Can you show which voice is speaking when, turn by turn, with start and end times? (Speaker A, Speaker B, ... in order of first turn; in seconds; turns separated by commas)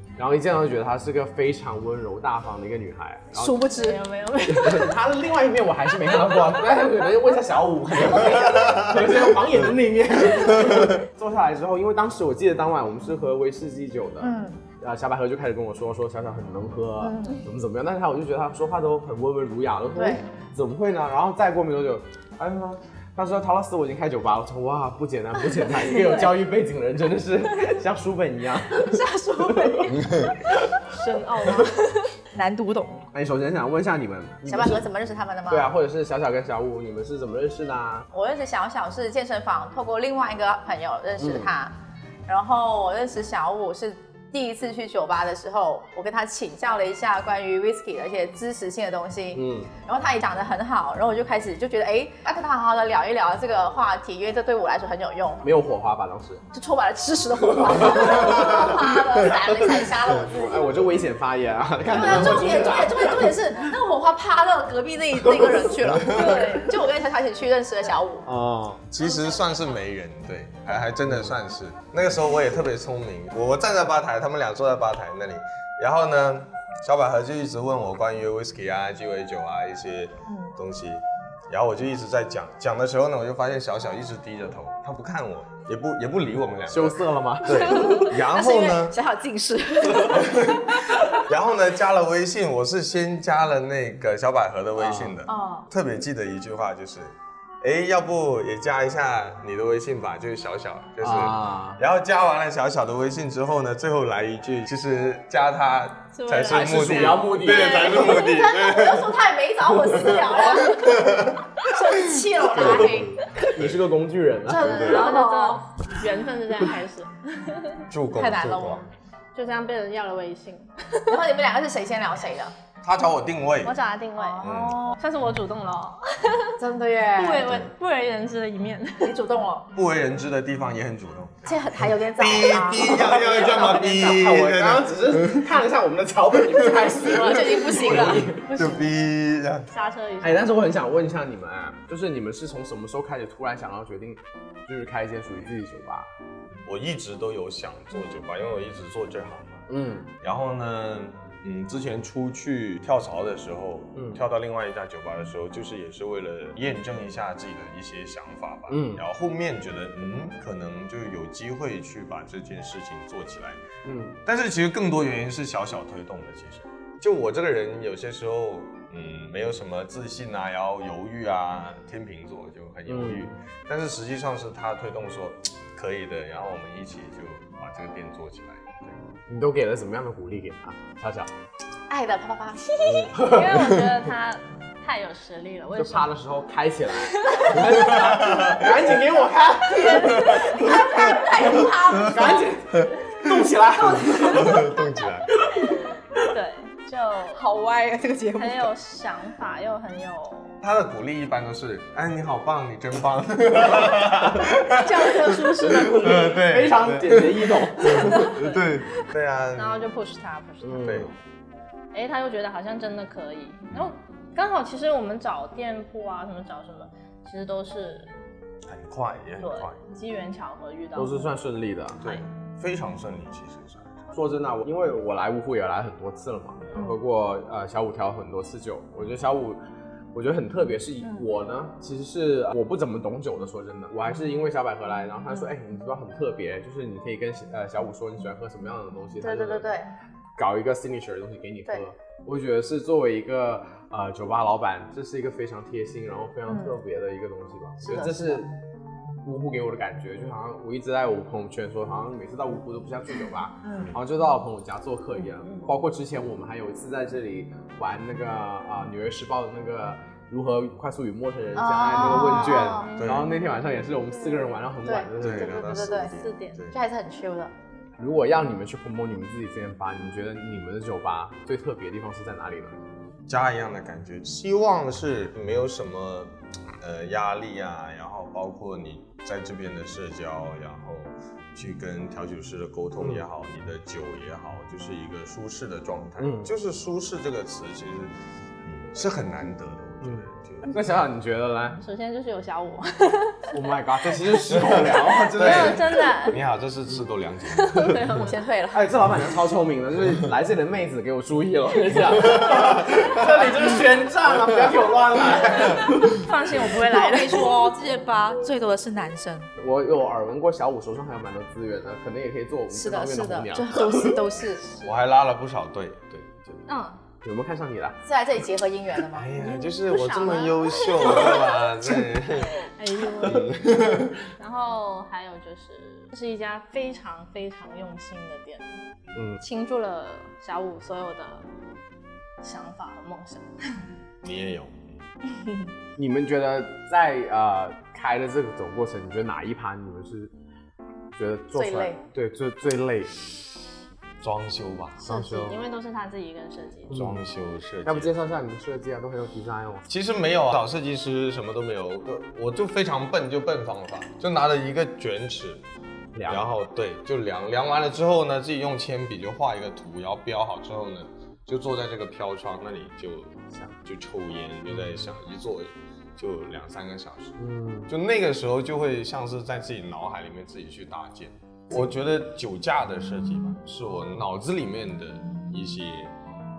Speaker A: 0.2-3.5, Speaker B: 3.4-4.0, Speaker C: 3.6-4.9, Speaker A: 4.5-30.6, Speaker B: 14.2-14.6, Speaker B: 17.0-17.4, Speaker B: 19.9-20.2, Speaker B: 28.8-30.1, Speaker D: 29.9-30.2, Speaker C: 30.9-32.0, Speaker B: 32.3-33.0, Speaker A: 33.1-34.8, Speaker B: 34.5-35.7, Speaker A: 35.5-38.1, Speaker B: 38.1-41.7, Speaker A: 41.2-41.5, Speaker B: 42.3-55.4, Speaker A: 49.3-49.7, Speaker A: 55.4-56.4, Speaker B: 56.5-60.8, Speaker A: 60.3-63.4, Speaker B: 61.9-68.3, Speaker D: 66.1-66.4, Speaker C: 66.1-66.7, Speaker A: 68.2-68.8, Speaker D: 68.9-89.0, Speaker B: 80.3-80.5, Speaker A: 86.7-87.9, Speaker B: 87.9-90.6, Speaker D: 90.0-90.7, Speaker D: 91.2-109.2, Speaker A: 94.8-95.1, Speaker B: 95.2-95.7, Speaker A: 101.0-101.8, Speaker C: 106.1-108.3, Speaker A: 106.5-108.1, Speaker B: 108.0-111.1, Speaker D: 110.3-111.4, Speaker B: 111.6-113.2, Speaker D: 112.6-113.8, Speaker A: 113.4-114.9, Speaker B: 114.5-115.6, Speaker D: 114.6-115.0, Speaker C: 114.6-117.8, Speaker D: 117.9-118.9, Speaker B: 118.2-118.8, Speaker C: 119.3-121.1, Speaker B: 121.1-122.5, Speaker D: 122.8-123.8, Speaker C: 123.6-126.6, Speaker B: 124.2-125.0, Speaker D: 124.4-124.8, Speaker B: 126.6-127.6, Speaker C: 127.2-129.2, Speaker D: 127.4-127.7, Speaker B: 129.0-129.7, Speaker D: 129.8-135.4, Speaker B: 131.4-134.2, Speaker A: 132.8-138.4, Speaker B: 137.0-138.9, Speaker D: 137.8-139.7, Speaker C: 139.7-140.6, Speaker A: 140.2-146.1, Speaker D: 146.7-149.7, Speaker A: 149.7-150.1, Speaker D: 150.2-163.6, Speaker A: 153.9-154.2, Speaker A: 158.7-159.0, Speaker A: 163.8-164.2, Speaker D: 164.2-179.1, Speaker A: 172.9-173.3, Speaker A: 179.3-181.3, Speaker B: 181.9-183.3, Speaker A: 182.8-183.5, Speaker C: 183.2-186.1, Speaker A: 185.8-190.6, Speaker C: 187.1-187.6, Speaker D: 188.0-188.6, Speaker B: 189.8-192.4, Speaker A: 192.0-194.6, Speaker D: 194.2-195.3, Speaker A: 195.3-195.7, Speaker C: 196.2-197.4, Speaker B: 197.3-198.7, Speaker C: 198.4-200.6, Speaker D: 200.6-209.8, Speaker A: 203.8-204.3, Speaker C: 204.8-206.4, Speaker A: 206.3-208.2, Speaker C: 207.9-208.8, Speaker C: 209.6-211.2, Speaker A: 210.6-211.1, Speaker D: 210.8-211.1, Speaker C: 211.9-218.1, Speaker D: 218.7-219.8, Speaker C: 219.4-221.2, Speaker A: 220.9-222.0, Speaker D: 222.0-223.9, Speaker A: 224.1-229.6, Speaker A: 230.1-239.7, Speaker B: 239.2-239.9, Speaker A: 240.4-248.5, Speaker B: 246.5-246.7, Speaker B: 247.8-248.4, Speaker A: 249.2-265.6, Speaker B: 253.6-253.9, Speaker B: 261.6-262.9, Speaker C: 261.9-263.2, Speaker D: 263.0-263.3, Speaker B: 264.8-266.1, Speaker D: 265.2-266.8, Speaker C: 266.2-266.6, Speaker B: 266.7-267.5, Speaker A: 268.0-272.8, Speaker D: 273.3-288.1, Speaker A: 286.2-286.5, Speaker D: 288.6-290.8, Speaker A: 290.0-291.8, Speaker C: 291.8-293.5, Speaker A: 293.5-295.8, Speaker D: 294.5-298.1, Speaker C: 295.1-296.4, Speaker C: 297.5-298.4, Speaker B: 298.1-298.9, Speaker A: 298.7-306.2, Speaker D: 302.3-303.3, Speaker D: 305.5-305.9, Speaker C: 305.9-307.7, Speaker B: 306.7-309.5, Speaker A: 309.6-313.9, Speaker B: 312.7-314.6, Speaker C: 314.6-314.9, Speaker D: 314.8-316.7, Speaker C: 316.7-317.0, Speaker A: 317.2-318.0, Speaker B: 318.0-319.3, Speaker D: 319.1-322.6, Speaker C: 319.4-321.5, Speaker C: 322.6-323.7, Speaker D: 323.2-324.1, Speaker C: 324.4-328.7, Speaker A: 329.1-329.4, Speaker C: 329.4-331.4, Speaker C: 332.4-333.8, Speaker D: 334.2-335.0, Speaker A: 336.0-340.3, Speaker A: 341.2-343.1, Speaker B: 341.6-342.0, Speaker D: 344.2-345.0, Speaker C: 345.0-346.9, Speaker A: 345.0-345.6, Speaker A: 346.9-347.2, Speaker D: 346.9-348.1, Speaker A: 347.9-349.9, Speaker D: 349.9-355.6, Speaker A: 356.1-356.5, Speaker D: 356.3-376.1, Speaker A: 367.4-367.9